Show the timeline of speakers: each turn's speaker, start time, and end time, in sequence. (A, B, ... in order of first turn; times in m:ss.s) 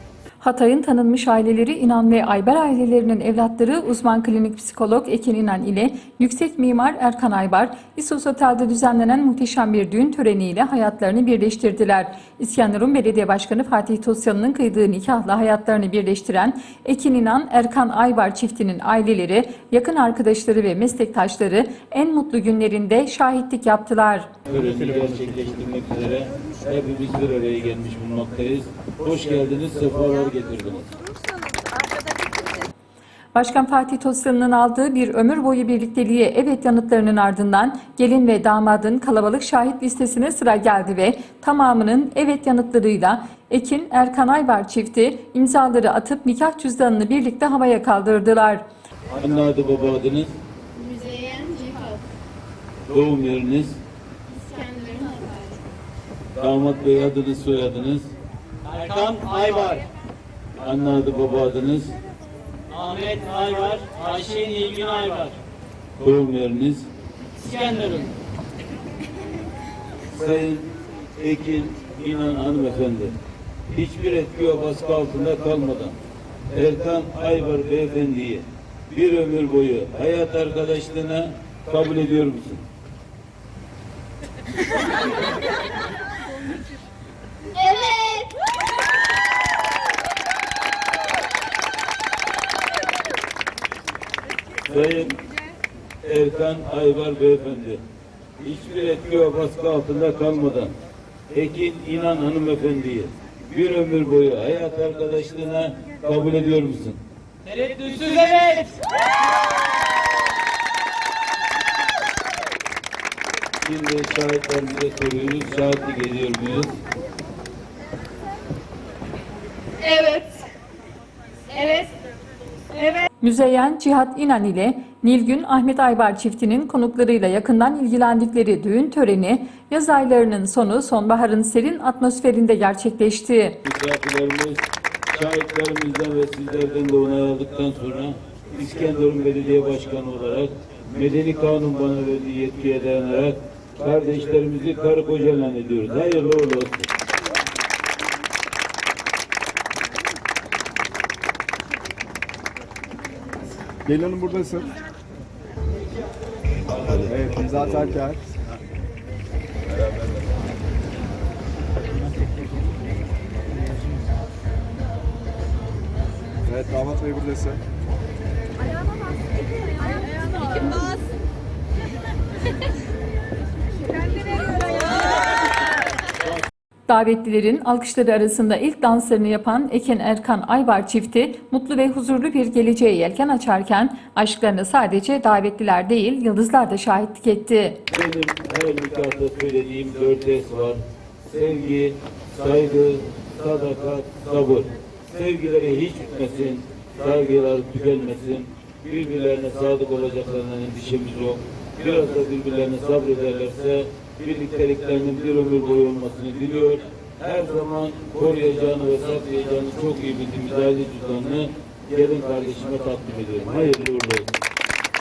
0:00.4-0:24.3 A
0:24.5-0:30.9 B
0:31.1-0:32.6 C
0:33.3-0:48.6 A
0:49.1-0:50.3 B
0:50.8-0:52.0 C
0:52.9-0:53.8 B
0:54.3-0:55.6 C
0:56.4-0:58.1 B
0:58.7-0:59.8 D
0:58.7-0:59.8 B
1:00.6-1:02.0 B
1:02.7-1:05.3 B
1:02.9-1:05.3 D
1:06.0-1:06.9 B
1:07.4-1:08.1 D
1:07.4-1:08.1 B
1:10.1-1:13.1 B
1:13.7-1:15.9 B
1:16.5-1:22.6 B
1:27.6-1:28.3 C
1:34.7-1:35.2 B
1:36.0-1:37.8 B
1:38.4-1:40.7 B
1:41.3-1:47.0 B
1:47.4-1:48.8 D
1:47.5-1:47.9 B
1:53.6-1:56.8 B
1:59.8-2:00.4 C
2:01.5-2:01.9 C
2:02.7-2:03.1 C
2:03.2-2:13.6 A
2:13.6-2:14.6 B
2:15.1-2:26.9 B
2:33.9-2:34.7 E
2:36.9-2:38.2 E
2:46.4-2:47.6 E
2:48.7-2:51.0 C
2:53.9-2:55.3 C
2:56.9-3:07.8 A
3:07.9-3:34.3 B